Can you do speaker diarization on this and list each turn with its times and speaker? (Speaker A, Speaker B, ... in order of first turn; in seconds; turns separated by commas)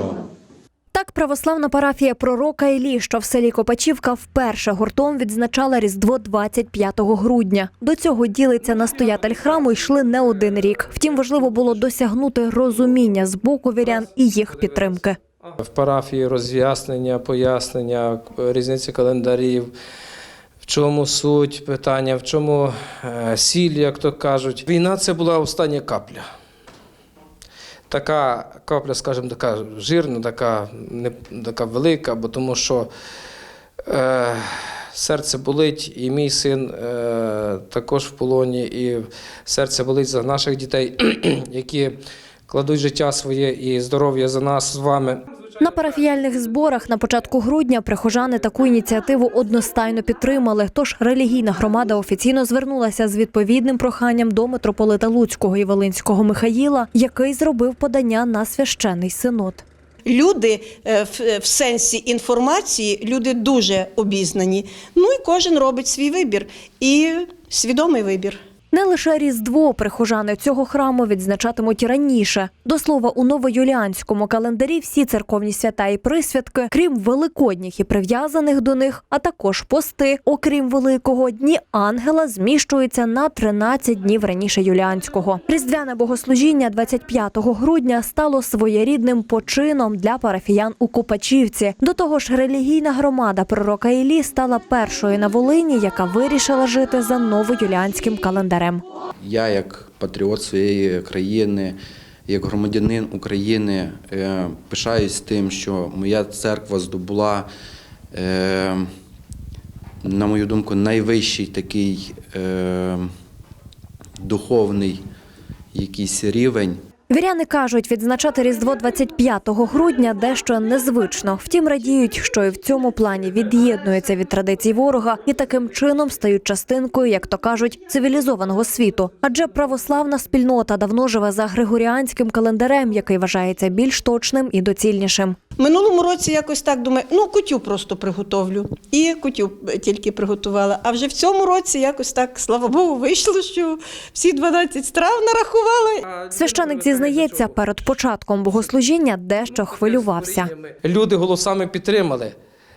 Speaker A: 0.9-15.2, Speaker B: 15.4-19.7, Speaker B: 20.6-26.3, Speaker B: 27.9-32.9, Speaker B: 33.9-45.2, Speaker A: 45.6-59.6, Speaker C: 60.0-68.4, Speaker A: 68.7-98.8, Speaker D: 99.2-107.5, Speaker D: 108.1-108.9, Speaker D: 110.0-113.1, Speaker D: 114.2-115.0, Speaker D: 115.7-116.8, Speaker A: 117.1-135.4, Speaker C: 135.6-146.0, Speaker B: 146.1-147.5, Speaker A: 146.3-150.5, Speaker B: 149.6-152.3